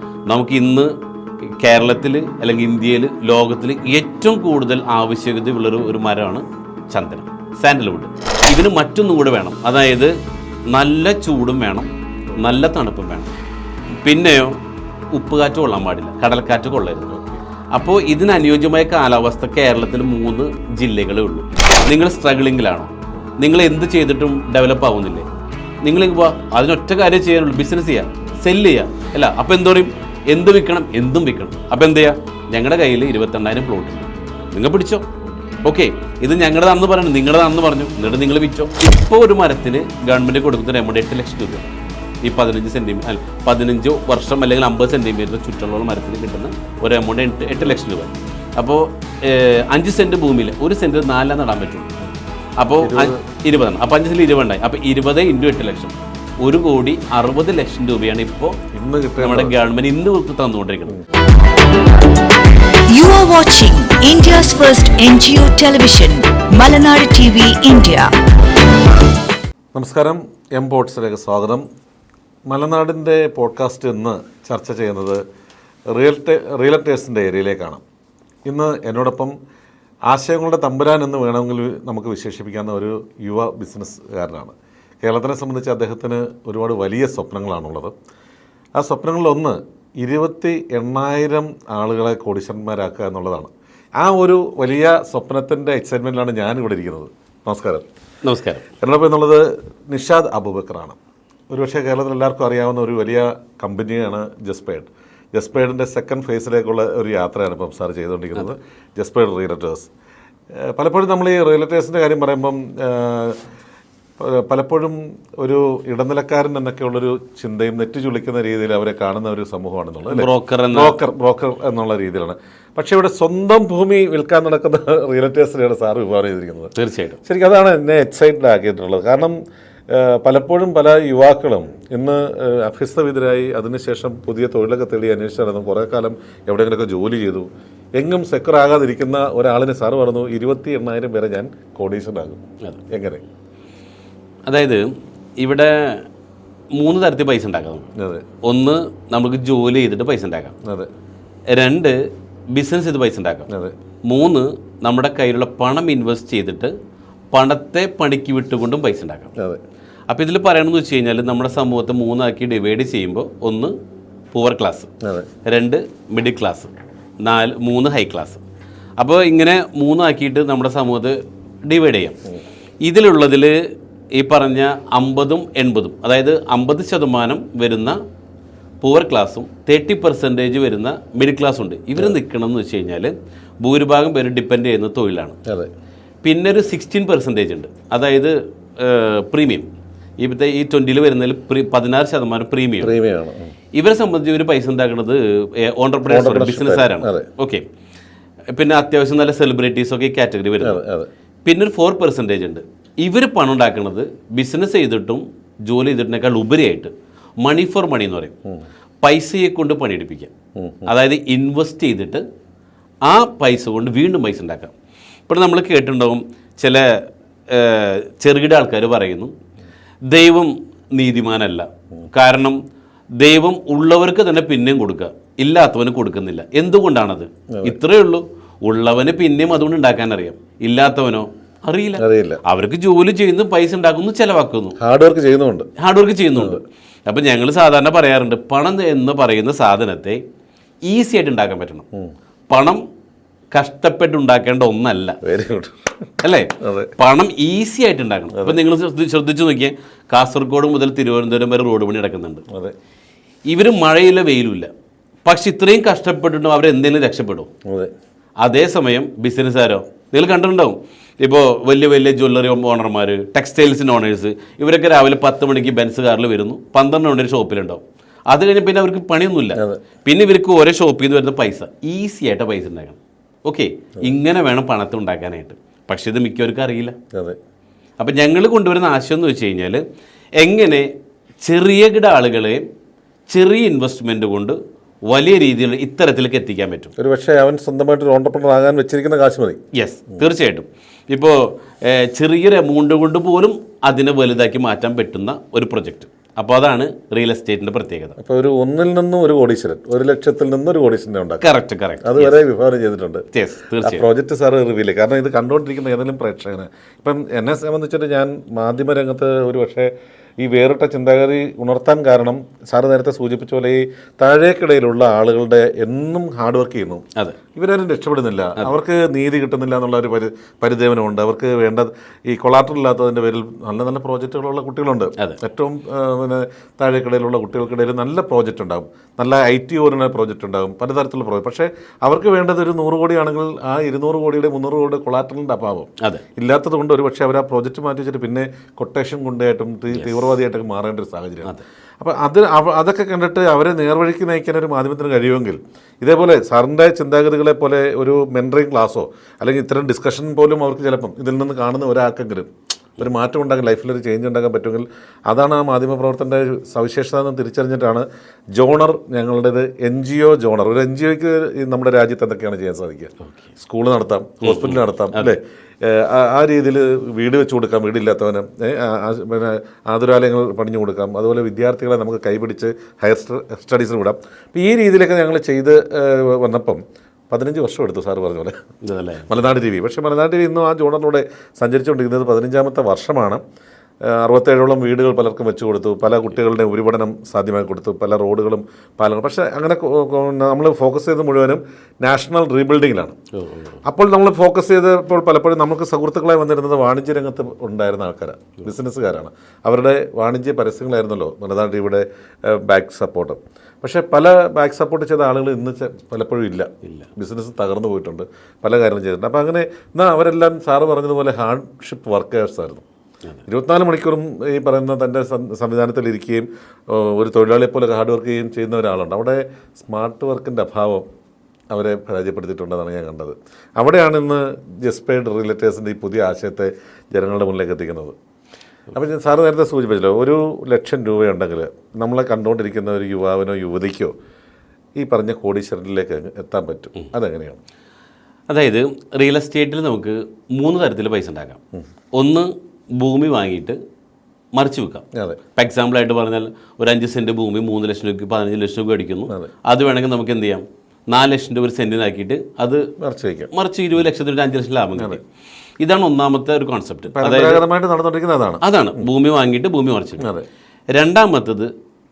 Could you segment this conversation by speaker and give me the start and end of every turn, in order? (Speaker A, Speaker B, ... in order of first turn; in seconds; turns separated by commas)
Speaker A: 0.3-0.9, Speaker A: 1.6-10.1, Speaker A: 10.7-13.3, Speaker A: 14.0-14.6, Speaker A: 15.1-17.2, Speaker A: 17.7-25.3, Speaker A: 25.8-35.0, Speaker A: 35.6-51.9, Speaker A: 52.6-58.6, Speaker B: 52.8-53.2, Speaker B: 58.7-59.5, Speaker A: 59.2-61.0, Speaker C: 62.9-68.1, Speaker B: 69.7-71.7, Speaker B: 72.5-75.2, Speaker B: 75.9-77.8, Speaker B: 78.5-79.3, Speaker B: 80.1-87.9, Speaker B: 88.8-97.8, Speaker A: 98.2-98.7, Speaker B: 98.8-101.0, Speaker B: 101.5-109.9, Speaker B: 110.6-113.4, Speaker B: 114.2-126.7, Speaker A: 120.1-121.0, Speaker A: 126.8-127.2, Speaker B: 127.2-129.4, Speaker B: 129.9-143.2, Speaker A: 144.5-144.9, Speaker A: 145.4-146.1, Speaker A: 146.8-147.9, Speaker B: 148.0-148.2, Speaker A: 148.4-150.5, Speaker B: 150.6-150.9, Speaker A: 151.5-152.0, Speaker A: 152.5-153.5, Speaker B: 153.5-153.8, Speaker A: 154.1-156.7, Speaker A: 157.3-159.3, Speaker A: 160.1-163.8, Speaker A: 164.3-164.9, Speaker B: 165.0-165.3, Speaker A: 165.5-168.4, Speaker A: 169.0-172.2, Speaker A: 172.8-173.6, Speaker A: 174.1-178.0, Speaker A: 178.8-185.4, Speaker A: 186.2-189.7, Speaker A: 190.2-192.9, Speaker B: 192.8-193.5, Speaker A: 193.7-197.6, Speaker B: 196.1-197.3, Speaker A: 198.5-200.8, Speaker B: 200.6-201.1, Speaker A: 201.4-208.3, Speaker A: 209.0-210.3, Speaker B: 210.6-210.9, Speaker A: 210.9-212.2, Speaker A: 213.0-214.7, Speaker A: 215.3-219.3, Speaker A: 220.1-222.6, Speaker A: 223.2-234.8, Speaker B: 232.0-232.4, Speaker B: 234.8-235.7, Speaker A: 235.8-240.2, Speaker A: 240.8-241.8, Speaker A: 242.5-242.8, Speaker A: 243.5-245.2, Speaker B: 245.2-245.9, Speaker A: 246.2-252.4, Speaker B: 246.6-246.9, Speaker A: 253.5-254.7, Speaker A: 255.3-257.5, Speaker B: 257.7-257.9, Speaker A: 258.4-277.0, Speaker A: 278.0-279.8, Speaker A: 280.4-280.9, Speaker A: 281.4-282.6, Speaker A: 283.3-286.9, Speaker B: 287.0-289.6, Speaker A: 289.7-298.2, Speaker B: 298.2-301.4, Speaker A: 301.4-302.4, Speaker B: 302.0-303.3, Speaker A: 303.3-304.1, Speaker B: 303.8-378.6, Speaker A: 339.9-340.2, Speaker A: 364.4-365.4, Speaker A: 378.8-379.3, Speaker B: 379.3-383.4, Speaker B: 384.1-393.2, Speaker A: 393.4-393.8, Speaker B: 393.8-412.8, Speaker B: 413.5-421.1, Speaker B: 421.7-428.1, Speaker B: 428.9-434.1, Speaker B: 435.0-437.6, Speaker A: 438.5-441.6, Speaker A: 442.1-443.8, Speaker A: 444.5-445.0, Speaker B: 445.1-445.4, Speaker A: 445.6-452.9, Speaker B: 453.0-453.5, Speaker A: 453.5-455.2, Speaker A: 455.8-457.6, Speaker B: 457.1-459.0, Speaker A: 458.6-460.3, Speaker B: 460.2-460.4, Speaker A: 460.9-461.7